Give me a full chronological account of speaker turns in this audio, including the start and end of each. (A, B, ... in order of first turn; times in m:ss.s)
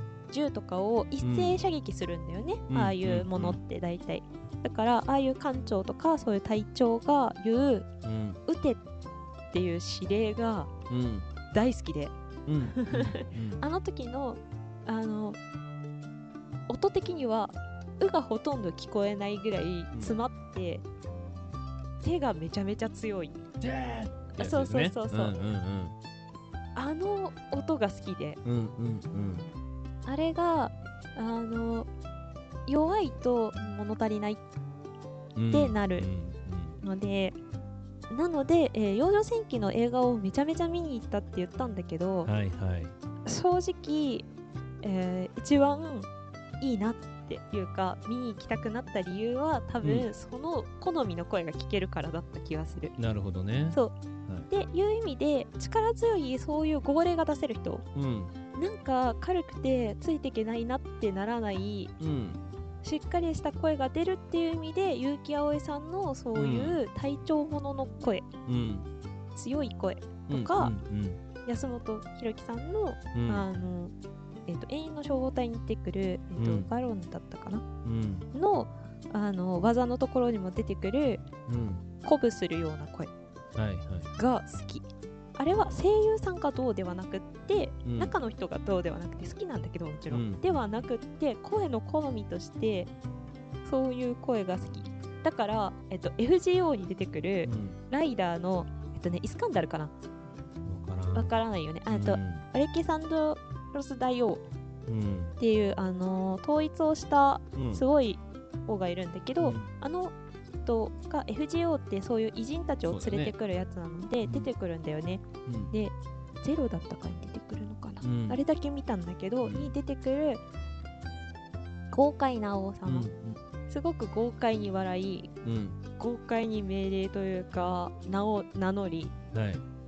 0:00.3-0:07.9 A
0:01.2-0:01.6 B
0:02.7-0:03.6 B
0:08.0-0:08.4 B
0:08.5-0:08.8 A
0:09.5-0:10.7 A
0:10.9-0:11.3 B
0:11.5-0:12.1 A
0:12.5-0:13.6 B
0:12.7-0:15.4 A
0:16.7-0:20.8 A
0:19.9-0:20.2 B
0:22.0-0:23.4 A
0:23.6-0:25.9 B
0:24.3-0:25.4 A
0:26.8-0:28.4 A
0:28.4-0:29.5 B
0:30.1-0:31.9 A
0:32.7-0:34.4 A
0:35.4-0:36.8 B
0:35.5-0:36.1 A
0:36.8-0:37.4 A
0:38.1-0:42.3 A
0:42.2-0:42.9 B
0:43.2-0:44.3 A
0:44.8-0:46.1 A
0:46.6-0:52.9 A
0:49.8-0:50.1 B
0:53.0-0:54.5 B
0:54.5-0:57.8 A
0:58.0-0:58.3 B
0:58.6-1:01.9 A
1:02.0-1:02.4 B
1:02.8-1:08.3 A
1:06.3-1:06.8 B
1:08.5-1:08.9 B
1:09.4-1:10.7 A
1:10.3-1:11.2 B
1:11.4-1:13.9 A
1:13.1-1:13.5 B
1:14.5-1:17.6 A
1:16.4-1:16.7 B
1:17.8-1:18.3 B
1:18.3-1:21.2 A
1:21.5-1:21.8 B
1:22.0-1:23.1 A
1:23.6-1:24.1 B
1:24.2-1:32.9 A
1:27.8-1:28.1 B
1:30.1-1:30.6 B
1:33.6-1:39.9 A
1:37.4-1:37.8 B
1:40.6-1:41.4 B
1:41.1-1:44.4 A
1:41.9-1:42.4 B
1:44.9-1:45.4 B
1:45.4-2:00.4 A
1:47.6-1:47.8 B
1:49.4-1:49.7 B
1:52.9-1:53.3 B
1:55.5-1:55.7 B
1:58.0-1:58.4 B
1:59.4-1:59.7 B
2:01.9-2:03.1 A
2:02.9-2:03.4 B
2:03.7-2:05.3 A
2:05.4-2:05.8 B
2:06.0-2:09.1 A
2:09.3-2:09.6 B